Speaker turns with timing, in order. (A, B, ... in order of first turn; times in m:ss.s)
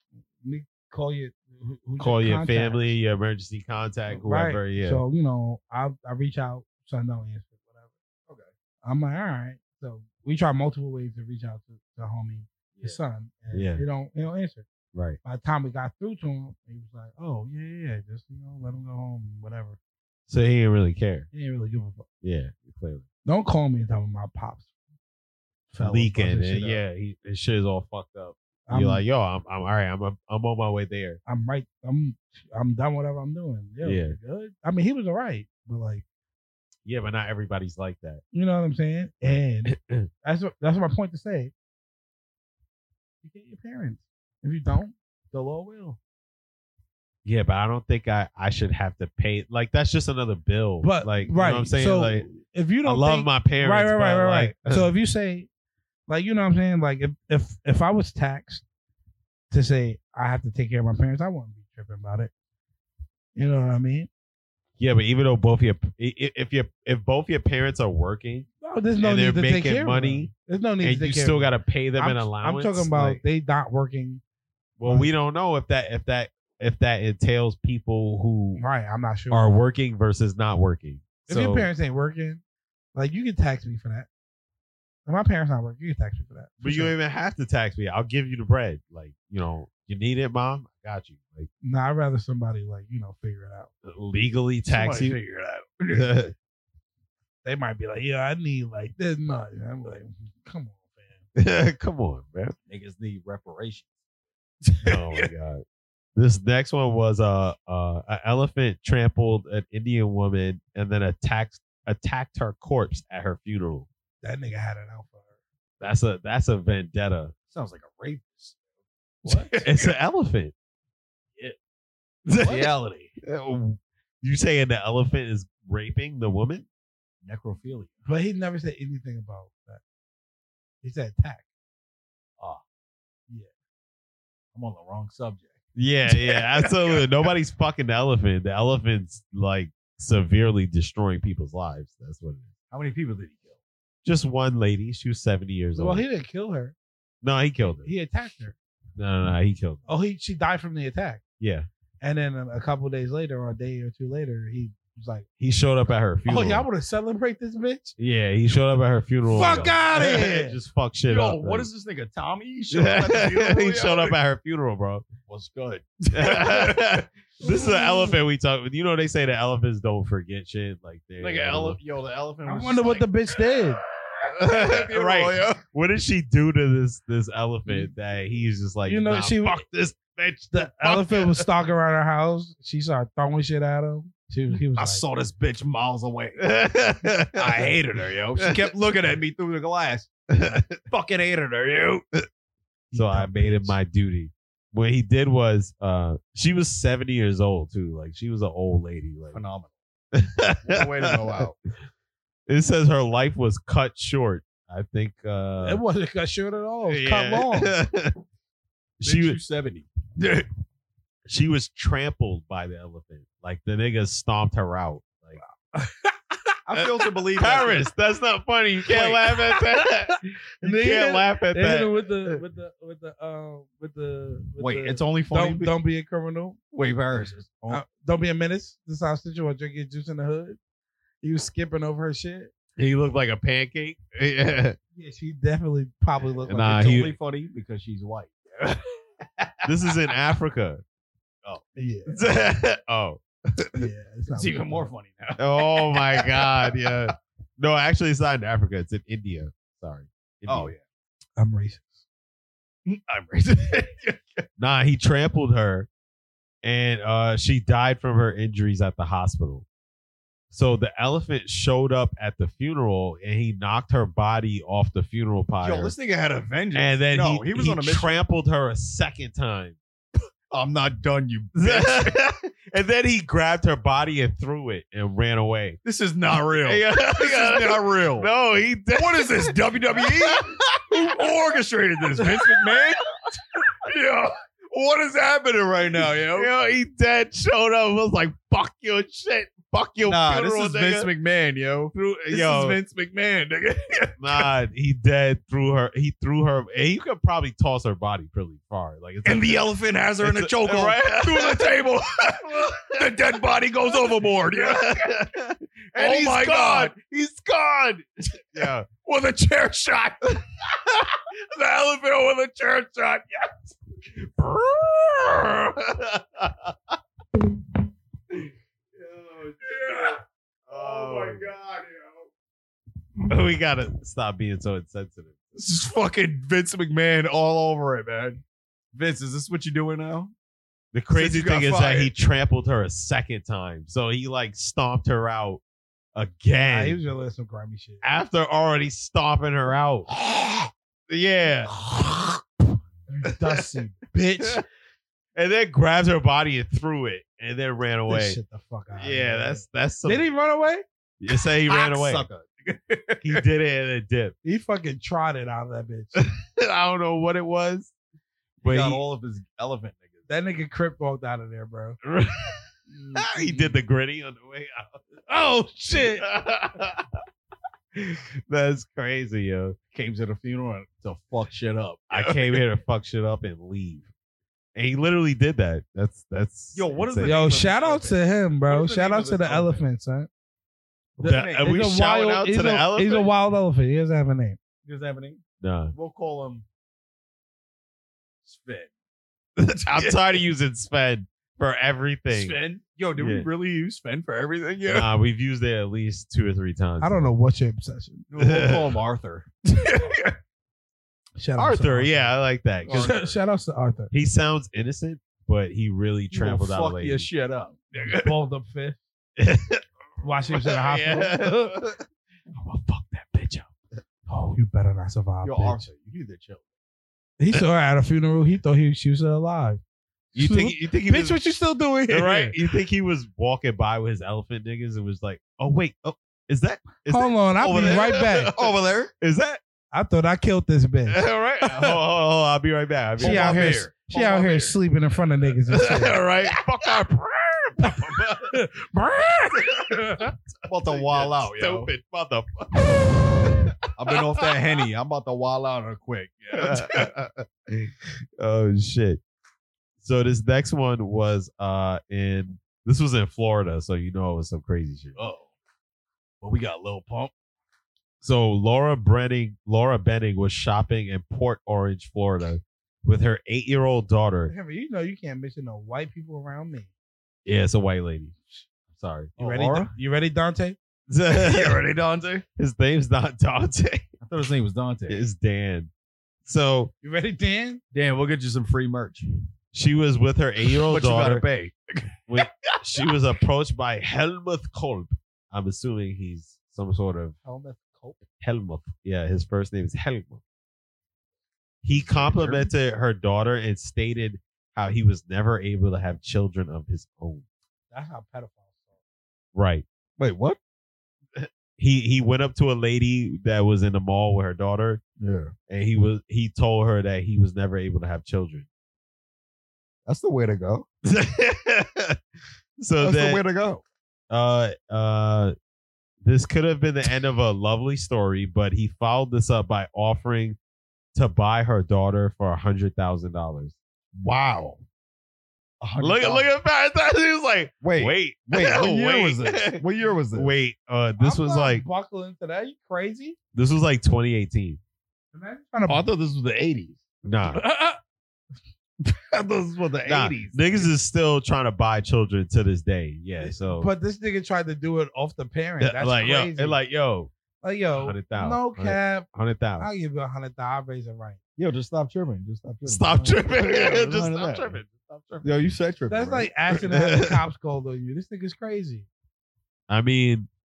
0:00.4-0:02.9 A
0:02.0-0:05.0 B
0:04.1-0:07.9 A
0:08.8-0:14.6 A
0:13.5-0:13.8 B
0:14.9-0:15.2 B
0:15.2-0:19.8 A
0:20.3-0:21.3 B
0:21.3-0:22.0 A
0:22.2-0:23.0 B
0:23.2-0:24.7 A
0:25.7-0:26.8 A
0:25.8-0:31.2 B
0:28.7-0:29.0 A
0:31.2-0:36.0 A
0:33.8-0:34.2 B
0:36.8-0:38.2 B
0:38.3-0:41.5 A
0:39.6-0:40.1 B
0:43.2-0:46.0 A
0:47.2-0:52.3 B
0:50.8-0:55.5 A
0:52.8-0:54.9 B
0:56.1-0:58.6 A
0:59.5-1:02.3 A
1:03.3-1:04.1 A
1:04.8-1:08.5 B
1:08.6-1:14.2 A
1:09.0-1:13.2 B
1:14.8-1:18.6 B
1:14.8-1:15.1 A
1:18.6-1:19.5 A
1:19.3-1:21.7 B
1:21.3-1:22.4 A
1:22.9-1:24.1 A
1:25.0-1:26.9 A
1:26.6-1:31.5 B
1:31.6-1:33.7 A
1:33.8-1:35.2 B
1:34.6-1:36.1 C
1:35.9-1:36.3 B
1:37.4-1:41.2 A
1:41.4-1:42.5 B
1:42.7-1:43.9 C
1:44.6-1:45.3 C
1:44.8-1:45.6 B
1:46.2-1:53.9 B
1:54.2-1:55.3 A
1:55.8-1:57.3 B
1:57.5-1:58.6 C
1:59.2-1:59.6 A
1:59.2-1:59.9 C
1:59.6-2:00.5 B
2:02.2-2:06.7 B
2:02.4-2:03.1 C
2:07.2-2:08.0 C
2:08.0-2:09.8 A
2:10.8-2:11.4 A
2:14.5-2:15.6 C
2:15.8-2:22.5 B
2:16.1-2:17.0 C
2:22.7-2:23.6 C
2:24.0-2:26.0 B
2:25.8-2:26.7 A
2:27.2-2:27.9 B
2:27.8-2:28.5 A
2:29.0-2:29.8 B
2:29.8-2:31.2 A
2:31.4-2:31.7 B
2:32.0-2:35.2 A
2:35.4-2:36.6 B
2:36.2-2:38.0 A
2:38.0-2:41.7 B
2:39.3-2:40.6 A
2:39.4-2:39.8 C
2:41.1-2:44.1 C
2:42.7-2:45.0 B
2:45.3-2:47.0 C
2:46.1-2:51.8 B
2:47.4-2:48.1 A
2:51.2-2:53.0 C
2:52.4-2:53.8 A
2:54.2-2:55.6 C
2:54.4-3:01.5 B
2:58.9-2:59.6 A
3:00.5-3:05.0 A
3:04.8-3:06.5 C
3:06.4-3:07.8 B
3:07.3-3:12.0 C
3:08.4-3:08.6 B
3:10.3-3:10.8 B
3:12.9-3:19.4 B
3:12.9-3:13.6 A
3:13.3-3:13.7 C
3:19.3-3:19.7 C
3:20.1-3:21.4 B
3:20.7-3:21.5 C
3:22.5-3:25.8 B
3:25.6-3:27.7 A
3:26.9-3:28.2 B
3:29.0-3:29.4 B
3:29.0-3:29.9 C
3:30.2-3:30.4 B
3:31.3-3:35.4 B
3:35.4-3:36.5 A
3:36.6-3:37.9 C
3:37.4-3:42.4 B
3:40.6-3:46.6 A
3:44.6-3:45.7 C
3:46.7-3:47.8 C
3:47.7-3:50.6 A
3:51.2-3:52.5 A
3:52.8-3:54.8 B
3:54.9-3:56.9 A
3:56.5-3:57.1 B
3:56.6-3:59.7 C
3:59.6-4:00.8 B
4:01.8-4:02.2 A
4:02.1-4:03.8 B
4:03.7-4:04.9 A
4:04.3-4:07.1 C
4:05.4-4:10.7 B
4:10.4-4:10.8 C
4:11.4-4:12.0 A
4:12.8-4:14.4 C
4:14.6-4:15.9 B
4:16.6-4:19.6 B
4:20.5-4:25.9 B
4:25.6-4:28.2 C
4:26.7-4:29.8 B
4:30.5-4:32.2 C
4:31.5-4:35.8 B
4:35.8-4:38.3 C
4:36.6-4:40.9 B
4:38.9-4:43.0 C
4:42.2-4:42.8 B
4:43.6-4:46.5 C
4:46.0-4:51.1 B
4:50.0-4:54.5 C
4:51.9-4:52.8 B
4:54.2-4:59.6 B
4:59.2-5:05.2 C
5:00.2-5:01.7 B
5:02.4-5:03.1 B
5:03.9-5:08.9 B
5:05.9-5:06.9 C
5:08.6-5:10.2 C
5:11.5-5:13.7 C
5:14.4-5:17.0 B
5:19.0-5:20.1 B
5:19.6-5:22.3 C
5:20.7-5:21.5 B
5:23.3-5:25.3 B
5:25.5-5:28.4 C
5:28.9-5:30.3 C
5:30.9-5:35.6 B
5:31.1-5:32.1 C
5:36.1-5:37.0 B
5:36.6-5:38.1 A
5:38.0-5:40.1 B
5:41.1-5:42.4 B
5:43.1-5:44.6 A
5:45.4-5:48.4 B
5:48.1-5:50.8 A
5:49.0-5:50.3 B
5:51.2-5:52.2 B
5:51.6-5:53.4 C
5:53.2-5:54.3 B
5:54.4-5:56.2 A
5:56.1-5:57.9 B
5:58.6-5:59.0 B
5:58.6-6:00.2 C
6:00.3-6:02.0 A
6:02.0-6:05.0 B
6:03.0-6:03.6 A
6:05.3-6:06.2 A
6:05.9-6:07.1 B
6:07.9-6:09.8 B
6:09.9-6:12.6 C
6:12.1-6:14.1 B
6:14.7-6:17.4 B
6:16.7-6:19.8 C
6:17.2-6:20.3 A
6:21.2-6:23.3 B
6:21.2-6:21.8 C
6:21.2-6:24.6 A
6:24.8-6:25.4 C
6:25.6-6:25.9 B
6:25.9-6:26.6 C
6:28.4-6:28.9 C
6:29.7-6:30.2 C
6:29.8-6:32.6 B
6:32.3-6:35.1 C
6:33.2-6:33.5 B
6:34.9-6:37.2 B
6:37.0-6:38.3 A
6:38.3-6:40.3 C
6:38.4-6:38.9 B
6:41.4-6:42.3 A
6:41.6-6:43.2 B
6:42.8-6:43.3 C
6:42.9-6:44.1 A
6:44.1-6:47.3 B
6:46.3-6:48.3 C
6:48.0-6:49.0 A
6:49.4-6:52.0 B
6:50.2-6:51.8 A
6:52.5-6:53.7 B
6:54.3-6:55.9 A
6:55.4-6:56.6 C
6:57.4-6:59.8 A
7:00.3-7:02.6 A
7:00.3-7:01.4 B
7:02.1-7:09.6 B
7:07.1-7:08.5 A
7:08.5-7:09.1 C
7:09.9-7:11.2 A
7:11.1-7:13.8 B
7:11.6-7:12.0 C
7:13.2-7:14.7 C
7:13.2-7:16.2 A
7:15.7-7:18.5 B
7:17.8-7:20.3 A
7:20.2-7:24.6 B
7:20.7-7:21.9 C
7:23.9-7:27.1 C
7:26.5-7:29.2 B
7:30.0-7:35.2 B
7:35.1-7:35.4 C
7:36.4-7:37.3 C
7:38.2-7:44.5 B
7:44.5-7:46.9 A
7:47.4-7:49.4 B
7:49.4-7:49.9 C
7:49.4-7:50.8 A
7:51.1-7:51.8 B
7:51.3-7:52.4 C
7:52.6-7:54.1 B
7:54.2-7:55.2 C
7:55.1-7:55.9 B
7:56.4-7:56.9 B
7:57.0-7:57.8 A
7:57.9-7:59.3 C
7:59.7-8:01.4 B
8:00.7-8:02.7 C
8:02.3-8:07.4 B
8:07.4-8:08.2 A
8:08.4-8:10.4 B
8:11.8-8:17.4 B
8:11.9-8:12.7 C
8:17.9-8:18.9 A
8:19.5-8:19.8 B
8:20.2-8:20.6 C
8:21.4-8:25.0 B
8:25.2-8:25.5 C
8:25.7-8:28.7 B
8:30.0-8:30.8 C
8:31.0-8:32.2 B
8:32.8-8:33.4 B
8:33.0-8:33.8 C
8:34.3-8:35.5 B
8:36.2-8:40.6 B
8:41.1-8:43.7 B
8:44.1-8:44.8 C
8:45.8-8:46.5 C
8:46.0-8:51.8 B
8:47.8-8:50.5 C
8:51.2-8:53.4 A
8:53.5-8:54.8 B
8:55.3-8:56.1 A
8:55.8-8:57.0 C
8:57.2-8:57.6 B
8:57.5-8:57.8 C
8:59.0-9:00.9 C
9:00.1-9:03.9 B
9:03.6-9:06.8 A
9:05.8-9:07.3 B
9:07.6-9:09.3 A
9:08.0-9:09.9 B
9:09.8-9:11.4 A
9:11.6-9:14.8 C
9:12.8-9:15.6 B
9:15.4-9:16.5 C
9:16.1-9:19.1 A
9:16.7-9:17.4 B
9:19.9-9:20.5 B